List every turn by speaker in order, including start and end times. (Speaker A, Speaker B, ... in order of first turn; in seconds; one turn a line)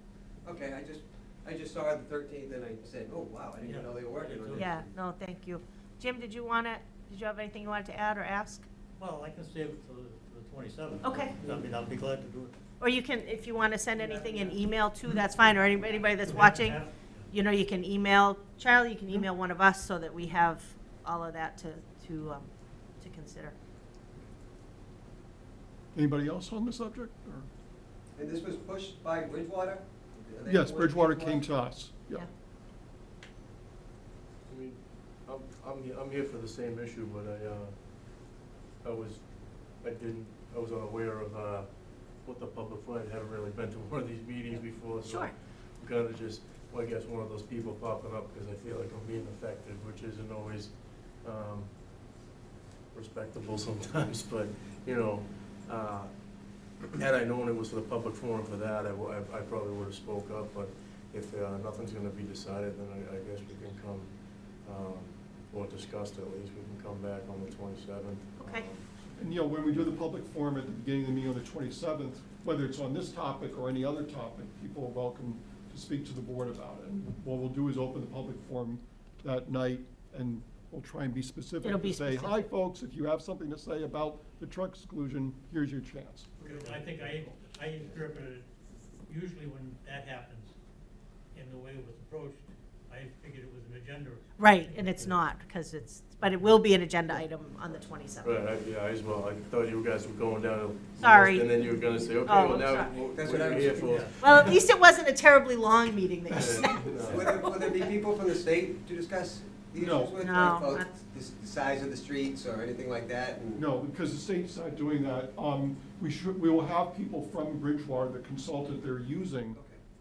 Speaker A: 0.4-4.9
Speaker B: 3.6-4.7
Speaker C: 4.5-8.7
Speaker B: 9.0-12.6
Speaker C: 11.0-11.4
Speaker C: 12.8-22.5
Speaker B: 14.0-14.6
Speaker B: 16.2-17.2
Speaker C: 23.0-23.5
Speaker D: 25.9-27.5
Speaker A: 28.1-31.4
Speaker D: 30.4-32.3
Speaker E: 34.5-37.7
Speaker E: 38.8-51.7
Speaker C: 45.1-45.3
Speaker E: 52.9-56.1
Speaker E: 56.9-64.1
Speaker E: 64.6-69.9
Speaker C: 68.4-68.7
Speaker D: 69.2-86.3
Speaker C: 81.6-82.5
Speaker B: 86.4-88.5
Speaker E: 86.6-86.9
Speaker B: 89.1-90.5
Speaker B: 91.3-95.1
Speaker C: 94.4-98.4
Speaker E: 98.2-104.5
Speaker C: 101.0-101.5
Speaker C: 102.2-102.9
Speaker A: 102.3-104.1
Speaker B: 103.8-104.1
Speaker C: 104.2-107.9
Speaker E: 106.3-107.3
Speaker A: 107.0-113.6
Speaker D: 109.7-110.1
Speaker C: 110.2-110.9
Speaker D: 113.5-119.6
Speaker A: 119.5-119.8